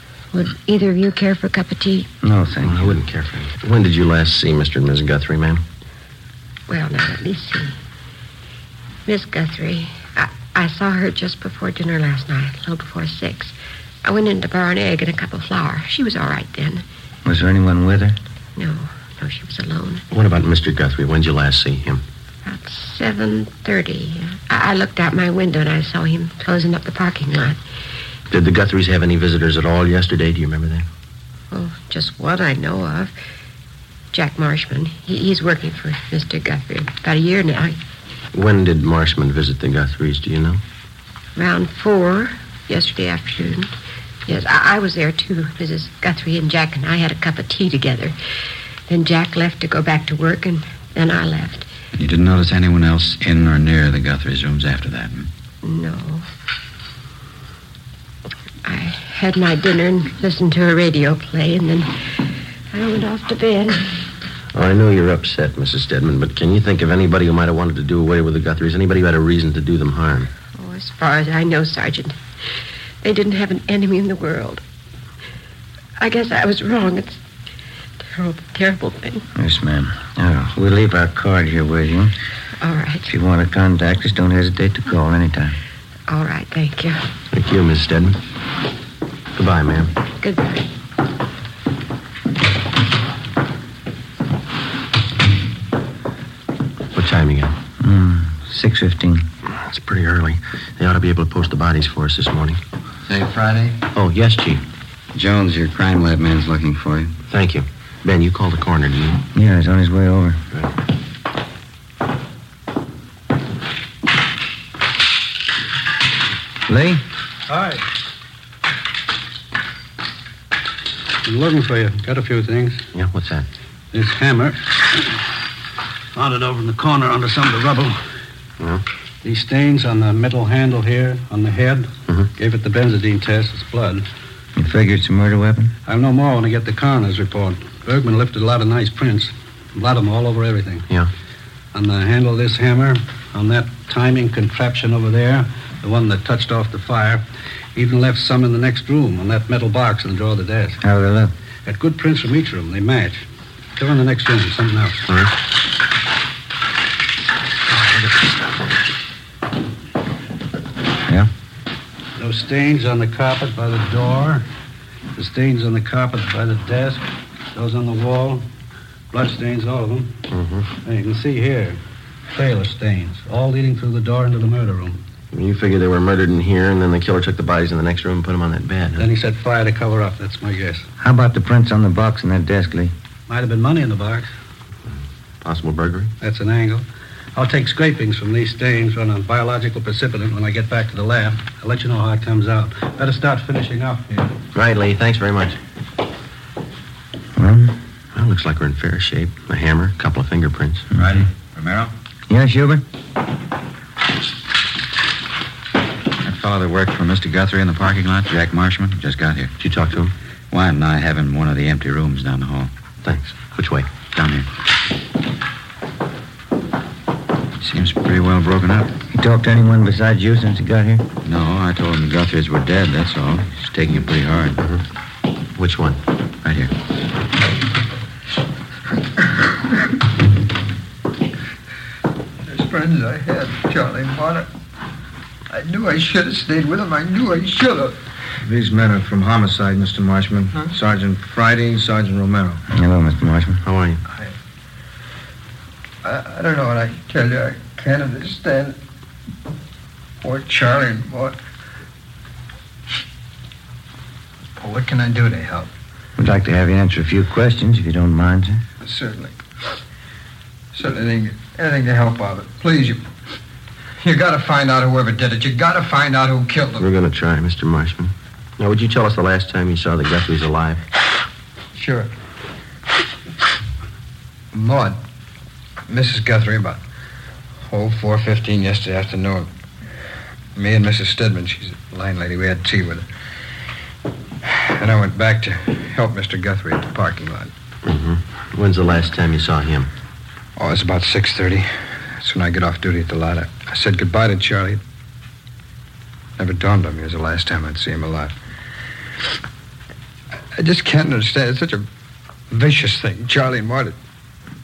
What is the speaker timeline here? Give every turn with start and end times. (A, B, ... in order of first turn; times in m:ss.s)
0:00.3-0:02.1 A
0:02.2-0:03.0 B
0:02.6-0:05.6 C
0:06.7-0:07.8 A
0:09.0-0:16.8 A
0:17.2-0:18.2 B
0:18.6-0:20.0 A
0:20.1-0:22.0 C
0:22.4-0:27.6 A
0:28.3-0:30.9 C
0:31.5-0:33.1 A
0:34.1-0:37.8 A
0:38.3-0:40.6 C
0:41.4-0:43.7 A
0:44.2-0:48.1 A
0:48.9-0:51.7 A
0:51.9-0:55.3 D
0:55.6-0:56.2 A
0:58.6-1:02.0 A
1:02.7-1:03.9 A
1:04.5-1:10.3 C
1:10.5-1:12.2 A
1:13.0-1:14.6 A
1:16.0-1:17.2 A
1:18.1-1:19.2 A
1:19.3-1:22.1 B
1:22.6-1:23.1 A
1:23.1-1:25.6 B
1:26.1-1:27.0 A
1:27.3-1:28.2 C
1:29.4-1:29.9 C
1:30.2-1:30.6 A
1:36.9-1:37.6 C
1:37.8-1:39.3 B
1:39.5-1:42.6 C
1:43.1-1:43.8 E
1:43.9-1:44.6 C
1:45.1-1:47.2 E
1:47.3-1:49.2 C
1:49.3-1:50.4 B
1:56.7-1:57.0 B
1:57.5-1:57.8 F
2:01.2-2:02.8 F
2:02.9-2:03.5 C
2:03.9-2:05.1 F
2:06.1-2:08.0 F
2:09.2-2:14.0 F
2:14.6-2:15.7 B
2:15.9-2:20.8 F
2:21.7-2:27.2 F
2:27.8-2:30.8 F
2:30.8-2:31.3 B
2:31.6-2:33.2 F
2:33.8-2:35.0 F
2:35.1-2:35.3 C
2:42.2-2:44.4 F
2:45.1-2:48.4 F
2:49.1-2:50.1 F
2:50.3-2:50.6 C
2:50.8-2:51.8 F
2:52.3-2:55.0 F
2:55.3-2:59.1 C
2:59.0-3:00.8 F
3:01.0-3:02.9 B
3:03.3-3:04.3 F
3:05.4-3:06.1 C
3:06.2-3:14.3 F
3:14.5-3:15.6 C
3:17.4-3:17.8 B
3:18.1-3:20.9 C
3:21.0-3:21.9 D
3:22.3-3:22.8 B
3:26.2-3:29.5 D
3:29.6-3:30.1 C
3:30.5-3:32.7 D
3:33.0-3:34.0 C
3:34.0-3:34.5 D
3:37.6-3:38.9 D
3:39.1-3:41.1 B
3:41.2-3:44.6 D
3:45.6-3:46.0 C
3:46.4-3:46.7 D
3:52.4-3:54.5 G
3:55.5-3:58.0 G
3:58.4-4:02.6 H
4:02.7-4:03.6 B
4:03.6-4:04.0 C
4:06.0-4:08.8 G
4:10.2-4:11.4 G
4:14.5-4:15.7 G
4:16.2-4:18.6 B
4:18.8-4:19.3 G
4:20.7-4:23.0 G
4:24.0-4:26.8 G
4:26.8-4:30.8 C
4:31.7-4:32.1 G
4:34.5-4:35.0 G
4:35.9-4:36.8 G
4:37.7-4:39.5 G
4:40.6-4:43.0 G
4:44.4-4:47.5 G
4:47.8-4:49.9 C
4:50.6-4:54.8 G
4:56.4-4:58.4 G
5:00.5-5:01.8 G
5:02.5-5:04.0 G